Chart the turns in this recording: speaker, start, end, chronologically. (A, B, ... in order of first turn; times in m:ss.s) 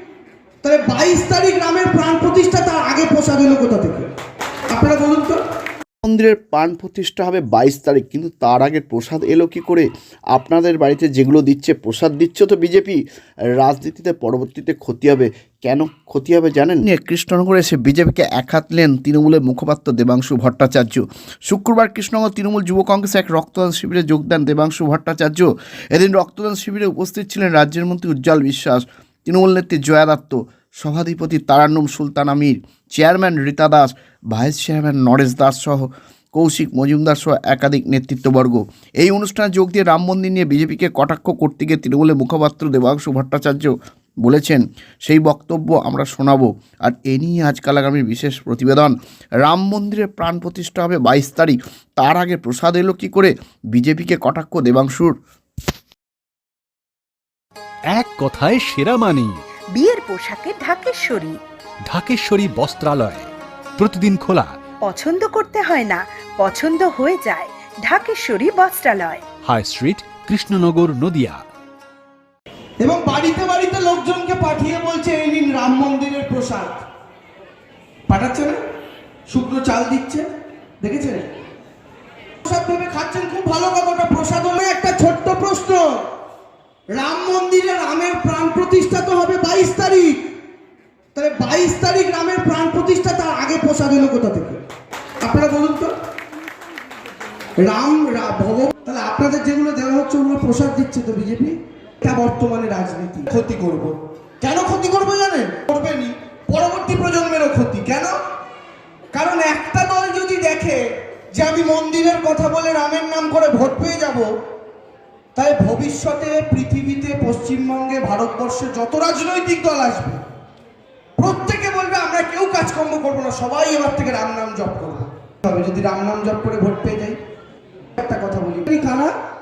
0:00.6-0:04.0 A
0:04.7-0:05.4 A
0:06.0-0:13.0 B
0:13.6-0:55.1 B
0:57.9-0:59.4 C
0:59.7-1:01.4 D
1:01.8-1:04.6 C
1:04.8-1:09.2 D
1:09.4-1:11.4 C
1:12.8-1:16.8 A
1:18.1-1:18.6 A
1:19.3-1:20.2 A
1:20.8-1:21.2 A
1:22.4-1:25.9 A
1:26.9-1:30.2 A
1:31.1-1:34.6 A
1:35.2-1:35.9 A
1:37.6-1:48.1 A
1:49.1-1:50.8 A
1:51.3-1:54.3 A
1:55.3-2:00.2 A
2:01.2-2:07.2 A
2:08.0-2:09.1 A